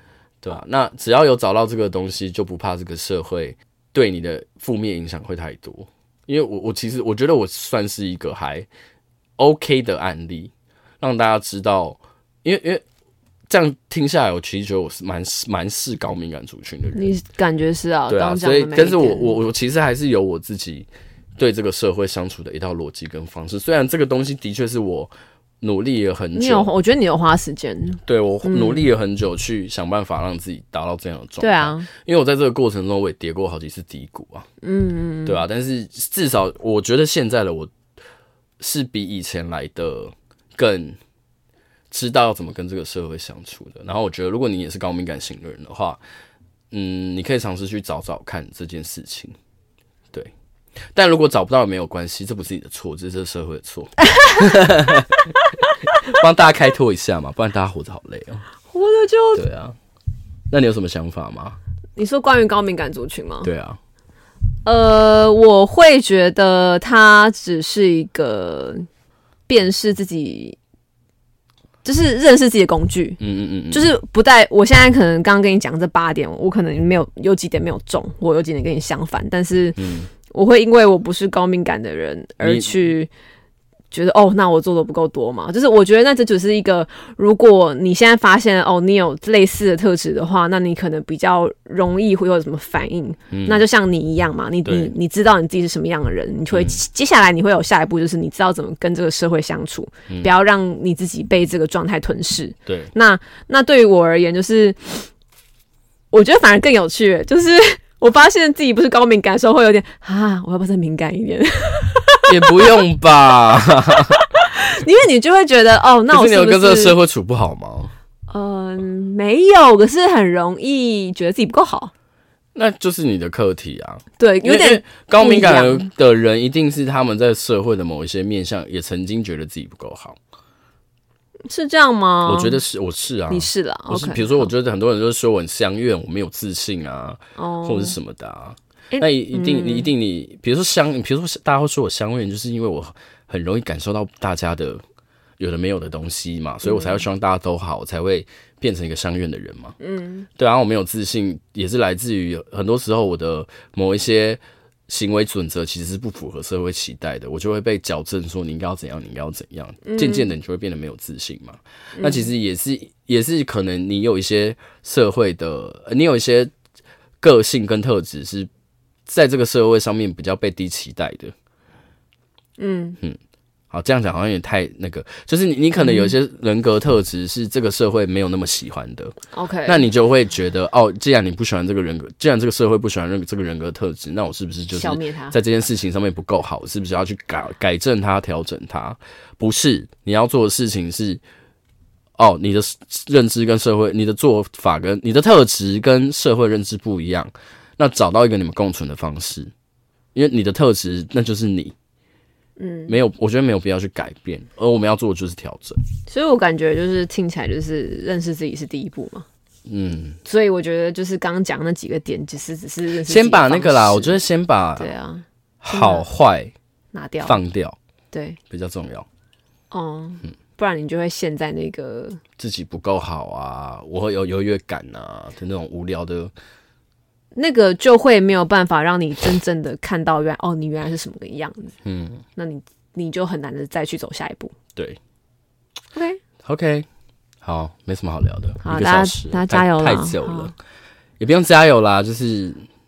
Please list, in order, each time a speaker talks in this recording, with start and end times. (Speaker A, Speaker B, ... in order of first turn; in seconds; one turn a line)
Speaker A: 0.4-8.7
Speaker A: 9.4-12.8
Speaker A: 13.5-17.1
Speaker B: 16.9-19.4
Speaker A: 18.1-26.7
Speaker B: 26.4-28.8
Speaker A: 28.1-34.5
Speaker B: 31.4-31.9
Speaker B: 34.6-35.4
Speaker A: 35.2-37.7
Speaker A: 38.6-41.0
Speaker A: 41.9-46.0
Speaker A: 46.7-49.3
Speaker A: 50.9-55.2
Speaker A: 56.0-58.4
Speaker B: 58.7-59.4
Speaker A: 59.3-59.8
Speaker A: 60.5-61.6
Speaker B: 62.0-63.5
Speaker A: 63.4-63.8
Speaker B: 64.6-68.9
Speaker B: 69.5-70.6
Speaker B: 71.8-73.2
Speaker A: 73.2-73.9
Speaker B: 73.7-83.1
Speaker A: 79.8-80.1
Speaker A: 82.4-82.9
Speaker B: 83.9-105.1
Speaker A: 93.3-93.6
Speaker A: 94.6-94.9
Speaker A: 96.5-96.8
Speaker A: 102.7-102.9
Speaker B: 106.1-112.7
Speaker A: 112.2-114.2
Speaker B: 114.1-117.0
Speaker A: 116.1-117.9
Speaker B: 118.3-121.9
Speaker A: 122.5-130.2
Speaker B: 124.2-125.9
Speaker B: 131.5-132.6
Speaker A: 132.2-144.8
Speaker B: 133.3-134.5
Speaker B: 137.4-138.0
Speaker B: 138.9-139.9
Speaker A: 145.4-149.7
Speaker B: 146.6-147.0
Speaker B: 149.8-150.3
Speaker A: 150.4-166.5
Speaker B: 159.8-160.3
Speaker B: 161.9-162.3
Speaker A: 167.2-168.5
Speaker A: 169.1-171.3
Speaker B: 172.6-173.0
Speaker A: 173.7-179.1
Speaker B: 175.8-176.1
Speaker B: 179.3-179.8
Speaker A: 179.7-191.2
Speaker B: 184.7-185.4
Speaker A: 192.2-199.5
Speaker A: 200.1-201.7
Speaker B: 202.6-202.9
Speaker A: 202.9-205.8
Speaker B: 206.1-209.2
Speaker A: 209.7-210.2
Speaker B: 210.2-214.2
Speaker A: 213.1-214.9
Speaker B: 214.8-216.1
Speaker A: 215.6-216.5
Speaker B: 216.9-217.4
Speaker A: 217.2-217.8
Speaker B: 218.1-218.4
Speaker A: 218.5-219.1
Speaker B: 219.7-222.2
Speaker A: 222.4-226.3
Speaker B: 227.3-231.7
Speaker A: 231.8-232.2
Speaker B: 232.3-234.5
Speaker B: 235.9-236.2
Speaker A: 236.4-236.8
Speaker A: 237.4-240.5
Speaker B: 238.6-240.5
Speaker A: 241.2-242.6